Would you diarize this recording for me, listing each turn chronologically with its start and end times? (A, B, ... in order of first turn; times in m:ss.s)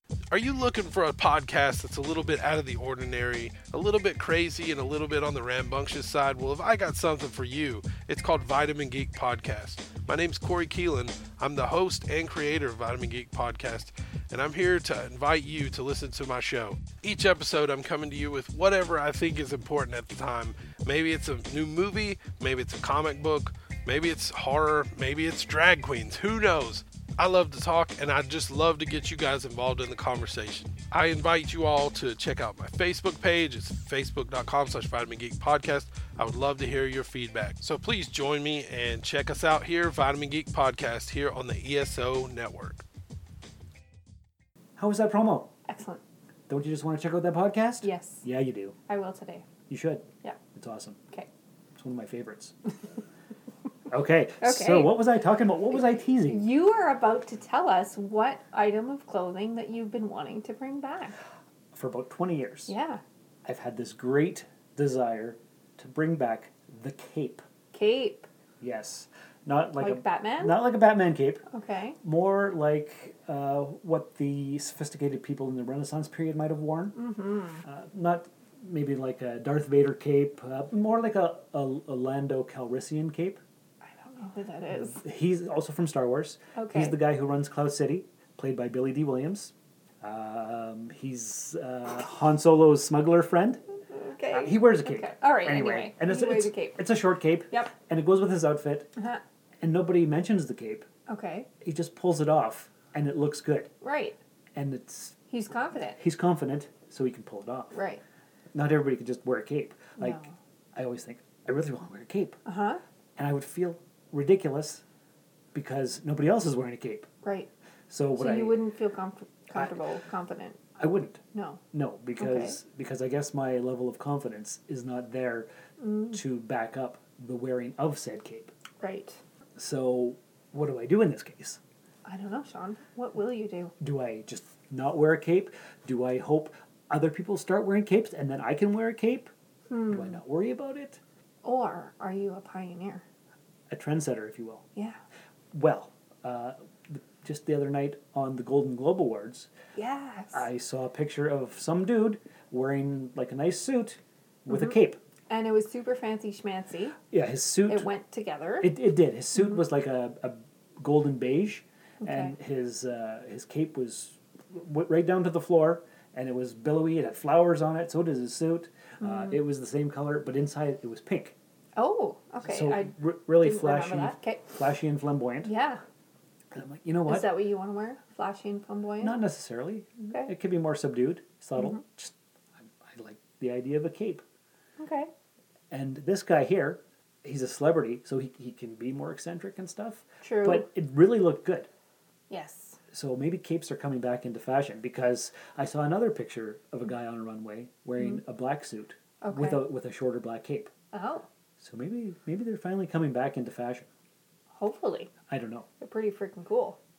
0:00.3-0:42.8 A
0:44.8-0:45.5 B
0:45.7-0:46.0 C
0:46.5-0:48.8 B
0:47.8-0:48.2 C
0:48.9-0:49.4 C
0:49.7-0:51.0 B
0:51.8-0:52.6 B
0:53.9-0:56.4 B
0:54.4-0:55.0 C
0:55.7-1:01.2 C
1:01.7-1:02.7 B
1:02.7-1:03.0 C
1:03.4-1:07.4 B
1:07.7-1:08.3 C
1:08.6-1:11.4 B
1:09.8-1:10.6 C
1:11.5-1:12.0 C
1:12.0-1:17.0 B
1:16.9-1:17.6 C
1:17.6-1:23.4 B
1:23.8-1:25.0 C
1:24.8-1:33.6 B
1:26.5-1:27.0 C
1:33.9-1:36.8 C
1:34.3-1:38.9 B
1:39.0-1:39.2 C
1:39.6-1:40.9 B
1:41.1-1:41.5 C
1:41.6-1:43.7 B
1:43.8-1:44.2 C
1:44.5-1:45.2 B
1:45.3-1:46.0 C
1:46.0-1:47.7 B
1:47.7-1:48.0 C
1:48.5-1:50.2 B
1:50.0-1:50.3 C
1:50.7-1:52.4 B
1:52.4-1:52.8 C
1:53.2-1:54.8 B
1:55.5-1:57.1 B
1:57.2-1:57.5 C
1:57.9-1:58.6 B
1:58.2-2:00.6 C
2:00.8-2:01.2 B
2:01.3-2:01.6 C
2:01.7-2:05.5 B
2:02.2-2:02.6 C
2:05.8-2:06.2 C
2:06.1-2:08.5 B
2:08.8-2:09.2 C
2:09.6-2:11.6 B
2:12.0-2:13.7 C
2:13.8-2:19.3 B
2:19.7-2:20.2 C
2:19.9-2:21.0 B
2:21.4-2:23.0 C
2:23.7-2:24.6 B
2:24.7-2:25.0 C
2:25.5-2:29.5 B
2:29.8-2:30.4 C
2:30.3-2:35.0 B
2:35.3-2:37.0 C
2:37.1-2:37.9 B
2:37.7-2:38.7 C
2:38.6-2:51.4 B
2:42.0-2:42.3 C
2:49.0-2:49.4 C
2:51.8-2:54.5 C
2:52.4-2:55.5 B
2:55.4-2:55.8 C
2:56.5-2:57.4 B
2:57.0-2:59.2 C
2:59.0-3:04.2 B
3:04.8-3:05.1 C
3:05.7-3:11.7 B
3:10.2-3:10.7 C
3:12.3-3:12.8 C
3:12.9-3:20.7 B
3:19.2-3:19.6 C
3:20.9-3:21.3 C
3:21.6-3:23.9 B
3:24.5-3:25.1 C
3:25.3-3:25.7 B
3:25.8-3:26.8 C